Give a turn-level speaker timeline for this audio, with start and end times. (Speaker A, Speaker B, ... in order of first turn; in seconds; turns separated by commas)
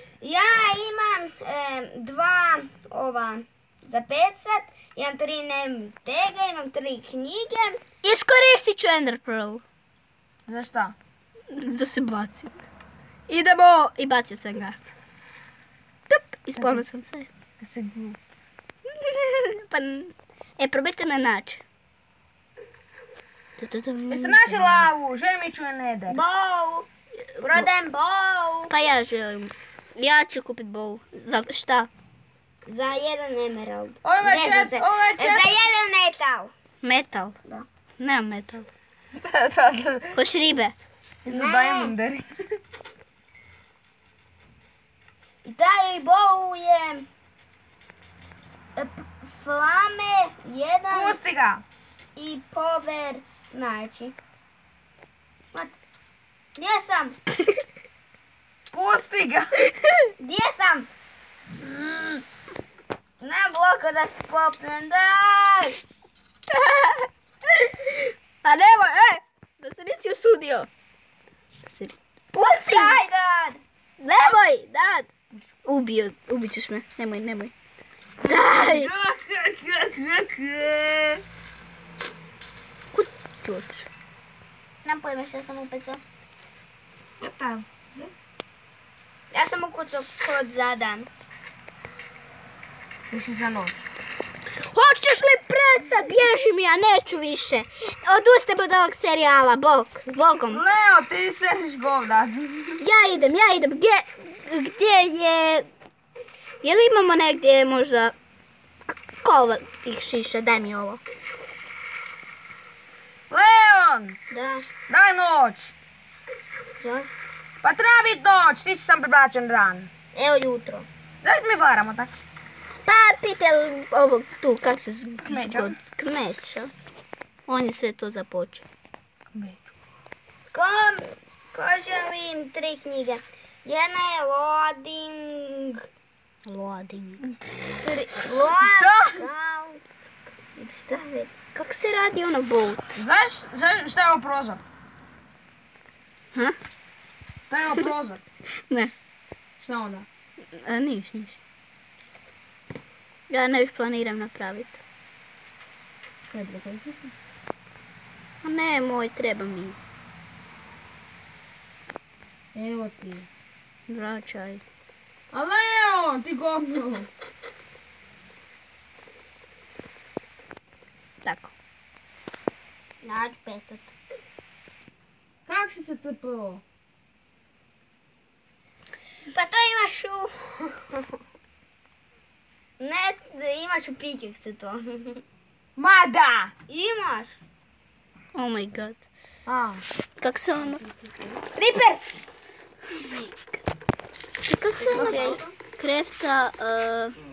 Speaker A: 0.2-7.8, Speaker B: 8.0-9.6, Speaker C: 10.5-10.9, Speaker B: 11.5-12.6, Speaker B: 13.3-14.8, Speaker B: 16.1-17.3, Speaker C: 16.6-16.8, Speaker C: 17.6-18.2, Speaker B: 18.9-21.6, Speaker B: 23.6-24.9, Speaker C: 24.1-26.2, Speaker A: 26.1-26.9, Speaker B: 27.4-27.7, Speaker A: 27.4-28.7, Speaker B: 28.7-31.9, Speaker A: 32.7-36.5, Speaker C: 34.0-35.6, Speaker B: 36.8-37.4, Speaker B: 38.0-38.7, Speaker C: 39.1-40.2, Speaker B: 40.1-40.8, Speaker C: 41.2-42.3, Speaker A: 41.3-42.0, Speaker A: 45.4-47.1, Speaker A: 48.8-51.2, Speaker C: 50.9-51.6, Speaker A: 52.2-54.1, Speaker A: 56.6-57.2, Speaker C: 58.7-59.7, Speaker A: 60.2-60.9, Speaker C: 61.6-62.2, Speaker A: 63.2-65.8, Speaker B: 66.5-70.7, Speaker B: 71.6-73.0, Speaker A: 72.3-73.6, Speaker B: 74.0-75.1, Speaker B: 75.7-77.5, Speaker B: 78.2-78.9, Speaker C: 78.2-81.2, Speaker B: 82.9-83.9, Speaker A: 84.8-86.0, Speaker C: 87.2-88.1, Speaker A: 89.3-91.1, Speaker C: 93.1-93.8, Speaker B: 94.5-100.6, Speaker C: 100.5-102.8, Speaker B: 102.8-105.7, Speaker B: 106.6-108.2, Speaker B: 108.9-111.0, Speaker C: 113.3-114.2, Speaker A: 114.3-114.7, Speaker C: 114.9-115.7, Speaker A: 116.8-117.1, Speaker C: 117.6-119.9, Speaker A: 120.1-120.9, Speaker C: 121.2-122.1, Speaker B: 122.9-126.7, Speaker C: 125.3-125.8, Speaker B: 127.5-128.6, Speaker C: 129.3-129.6, Speaker A: 130.5-135.8, Speaker B: 136.5-137.3, Speaker A: 137.8-139.8, Speaker C: 138.6-139.3, Speaker A: 140.6-141.3, Speaker B: 141.5-142.9, Speaker C: 143.0-144.6, Speaker C: 147.5-148.2, Speaker B: 148.7-148.9, Speaker C: 149.6-150.1, Speaker B: 150.5-151.4, Speaker B: 153.3-154.8, Speaker C: 156.3-157.1, Speaker B: 158.4-159.8, Speaker C: 162.6-163.3, Speaker B: 163.9-164.6, Speaker C: 165.3-167.1, Speaker B: 171.2-171.5, Speaker A: 173.0-173.9, Speaker C: 175.5-176.6, Speaker A: 179.3-181.1, Speaker A: 182.8-185.2, Speaker C: 185.8-186.5, Speaker A: 186.7-187.4, Speaker B: 188.3-189.0, Speaker C: 189.5-189.8, Speaker B: 190.2-190.8, Speaker A: 191.6-192.0, Speaker B: 192.9-193.6, Speaker B: 194.4-197.2, Speaker C: 194.9-195.4, Speaker A: 194.9-195.4